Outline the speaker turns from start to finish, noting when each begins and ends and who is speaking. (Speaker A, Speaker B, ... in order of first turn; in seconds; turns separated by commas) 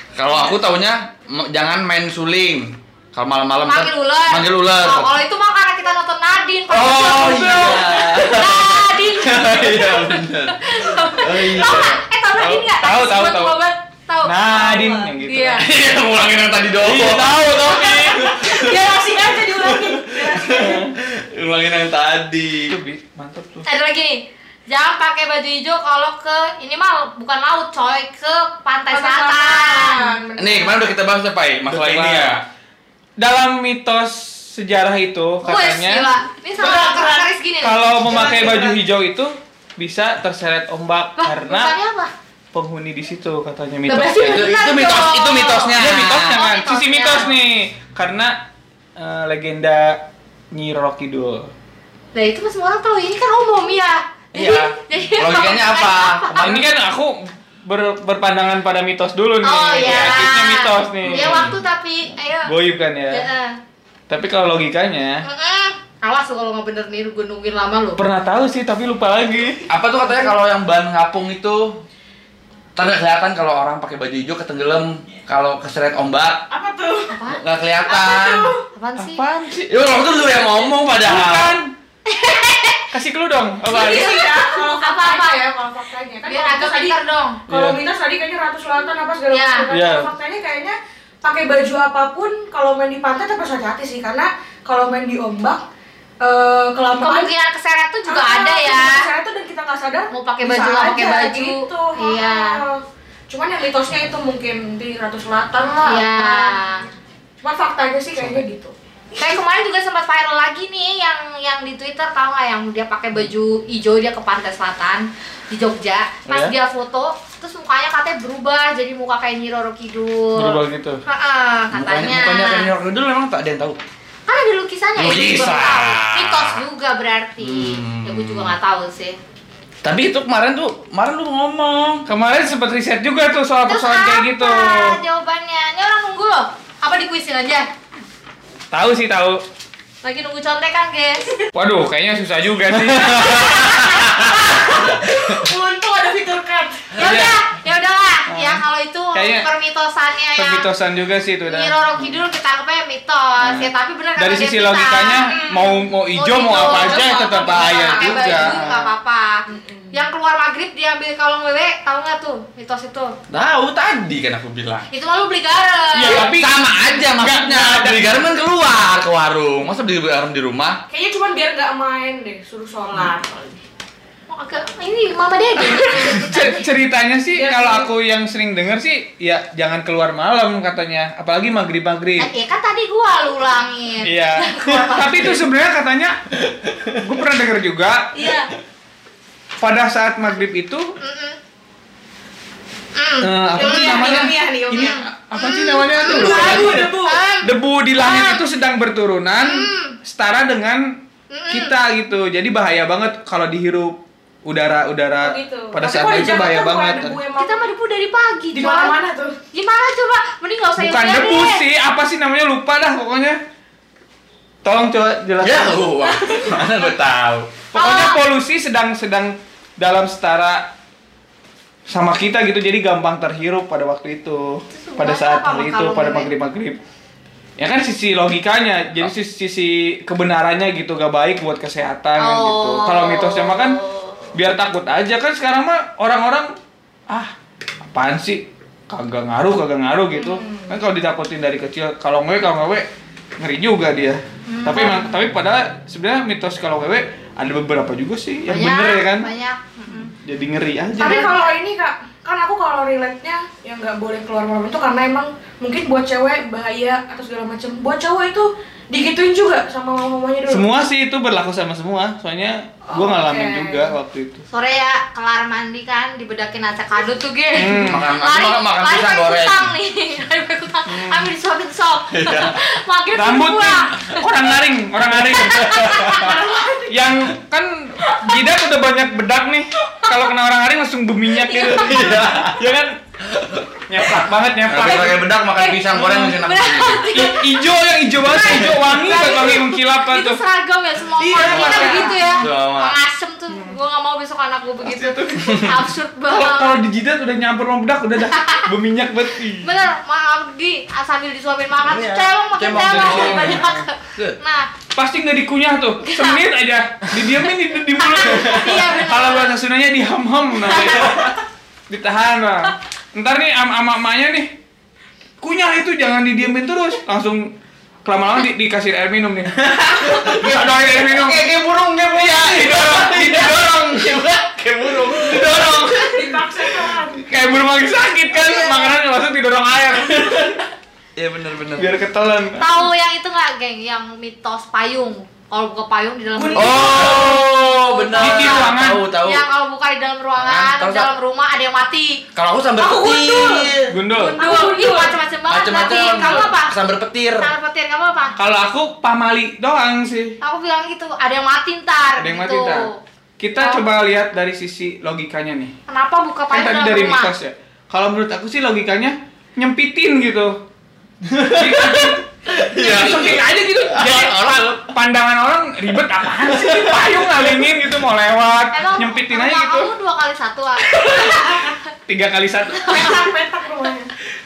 Speaker A: 0.1-5.2, Speaker B: 3.7-14.4, Speaker A: 6.7-12.0, Speaker C: 6.8-8.0, Speaker C: 12.4-13.6, Speaker C: 14.2-15.7, Speaker D: 14.5-15.1, Speaker B: 15.2-15.7, Speaker A: 15.6-22.7, Speaker C: 16.8-18.3, Speaker D: 17.6-20.9, Speaker C: 22.7-23.7, Speaker B: 23.6-30.1, Speaker D: 28.9-30.9, Speaker A: 30.4-32.4, Speaker C: 31.7-32.4, Speaker C: 33.2-36.1, Speaker B: 35.4-37.9, Speaker D: 36.6-37.3, Speaker C: 37.6-41.7, Speaker D: 38.0-38.8, Speaker B: 41.2-42.1, Speaker C: 42.5-44.5, Speaker B: 43.9-47.3, Speaker A: 44.2-46.4, Speaker C: 45.8-48.4, Speaker C: 49.0-50.0, Speaker C: 50.5-51.5, Speaker B: 52.1-56.6, Speaker A: 54.3-56.6, Speaker C: 56.4-61.5, Speaker B: 59.4-62.5, Speaker A: 61.0-61.5, Speaker C: 62.5-63.3, Speaker B: 63.1-63.6, Speaker C: 64.1-65.2, Speaker B: 65.2-68.0, Speaker C: 68.0-69.7, Speaker A: 69.7-71.8, Speaker A: 72.8-76.4, Speaker D: 76.5-77.2, Speaker B: 77.1-77.4, Speaker A: 77.3-78.5, Speaker D: 77.9-78.7, Speaker B: 78.7-79.2, Speaker C: 79.0-79.7, Speaker A: 79.7-81.6, Speaker C: 81.0-81.7, Speaker B: 82.1-82.9, Speaker C: 82.9-84.2, Speaker D: 83.7-95.6, Speaker B: 83.8-85.4, Speaker B: 86.2-87.4, Speaker C: 87.5-87.8, Speaker B: 89.3-89.7, Speaker C: 89.7-90.1, Speaker D: 96.2-97.3, Speaker B: 97.0-99.1, Speaker D: 98.1-106.6, Speaker B: 100.1-102.6, Speaker B: 105.8-106.8, Speaker D: 107.4-108.7, Speaker B: 109.2-122.7, Speaker C: 116.3-116.5, Speaker C: 120.4-121.0, Speaker A: 121.7-123.8, Speaker B: 124.3-129.2, Speaker A: 125.0-126.6, Speaker A: 127.4-128.5, Speaker A: 129.8-132.1, Speaker C: 132.1-135.0, Speaker B: 133.7-137.7, Speaker C: 138.7-139.4, Speaker B: 140.0-141.3, Speaker C: 141.5-143.9, Speaker B: 143.2-144.3, Speaker D: 143.6-147.0, Speaker B: 147.0-150.7, Speaker C: 147.0-147.4, Speaker C: 148.3-148.6, Speaker C: 149.1-149.5, Speaker C: 150.4-151.8, Speaker B: 151.5-155.4, Speaker C: 153.4-158.9, Speaker D: 155.2-155.9, Speaker B: 156.2-163.1, Speaker D: 156.7-157.2, Speaker D: 159.5-159.9, Speaker A: 163.3-164.9, Speaker B: 164.9-166.3, Speaker C: 165.9-168.3, Speaker A: 166.1-170.8, Speaker D: 170.9-173.6, Speaker B: 174.3-176.6, Speaker C: 175.9-182.3, Speaker D: 177.3-177.9, Speaker B: 182.2-185.4, Speaker C: 184.1-186.2, Speaker C: 186.8-188.1, Speaker B: 188.2-188.5, Speaker C: 189.6-191.0, Speaker B: 191.0-191.4, Speaker B: 192.9-198.4, Speaker C: 193.2-196.9, Speaker D: 193.5-195.0, Speaker D: 196.0-197.2, Speaker C: 197.4-201.0, Speaker B: 199.4-200.0, Speaker B: 201.3-201.7, Speaker C: 201.5-207.2, Speaker D: 205.2-207.7, Speaker B: 207.4-209.0, Speaker D: 208.5-209.4, Speaker B: 209.5-211.6, Speaker C: 210.8-213.4, Speaker C: 214.6-215.8, Speaker A: 215.4-217.5, Speaker D: 216.1-216.7, Speaker B: 217.7-218.2, Speaker C: 217.7-220.7, Speaker C: 221.9-226.8, Speaker B: 224.7-226.3, Speaker C: 227.6-233.8, Speaker B: 232.2-234.3, Speaker C: 234.3-236.5, Speaker C: 237.9-242.9, Speaker D: 240.1-240.8, Speaker C: 243.4-249.3, Speaker B: 244.5-245.2, Speaker B: 248.5-250.1, Speaker C: 250.2-251.3, Speaker D: 251.0-260.6, Speaker B: 251.0-251.5, Speaker C: 260.5-264.4, Speaker D: 262.9-263.9, Speaker B: 264.5-274.3, Speaker C: 267.6-268.1, Speaker A: 267.9-269.7, Speaker C: 270.9-271.3, Speaker A: 272.1-272.6, Speaker C: 273.1-283.0, Speaker B: 275.3-276.4, Speaker D: 276.0-276.9, Speaker B: 281.4-281.9, Speaker A: 281.6-282.6, Speaker A: 283.2-283.7, Speaker C: 283.9-285.3, Speaker A: 284.7-287.1, Speaker B: 285.6-287.6, Speaker C: 287.1-290.4, Speaker B: 288.3-296.8, Speaker A: 288.4-288.8, Speaker D: 289.2-289.5, Speaker D: 291.2-292.3, Speaker A: 291.4-293.0, Speaker C: 291.5-292.1, Speaker C: 294.8-299.7, Speaker B: 298.3-298.7, Speaker B: 299.6-304.7, Speaker A: 301.8-304.4, Speaker C: 302.8-303.9, Speaker C: 304.9-311.4, Speaker B: 306.0-306.4, Speaker B: 308.0-309.6, Speaker B: 310.7-311.2, Speaker C: 311.9-314.5, Speaker C: 315.4-317.5, Speaker C: 318.1-321.4, Speaker A: 319.6-326.1, Speaker C: 322.1-324.3, Speaker C: 325.0-330.7, Speaker D: 326.0-327.4, Speaker A: 328.4-328.9, Speaker A: 331.2-331.9, Speaker C: 331.8-332.7, Speaker B: 332.6-342.2, Speaker D: 336.3-337.4, Speaker A: 336.5-339.4, Speaker C: 338.2-339.0, Speaker A: 340.4-341.1, Speaker A: 342.4-343.9, Speaker D: 342.8-345.2, Speaker C: 343.9-344.4, Speaker B: 344.4-346.8, Speaker A: 345.5-347.5, Speaker D: 345.9-346.5, Speaker B: 347.4-348.4, Speaker C: 348.4-350.4, Speaker B: 350.4-353.0, Speaker C: 352.2-352.9, Speaker C: 353.4-355.8, Speaker B: 353.6-353.9, Speaker B: 355.9-357.3, Speaker C: 356.5-360.6, Speaker A: 361.2-364.9, Speaker C: 361.4-369.9, Speaker A: 366.5-367.3, Speaker B: 368.7-371.7, Speaker D: 371.0-371.7, Speaker C: 372.1-373.2, Speaker D: 372.8-374.1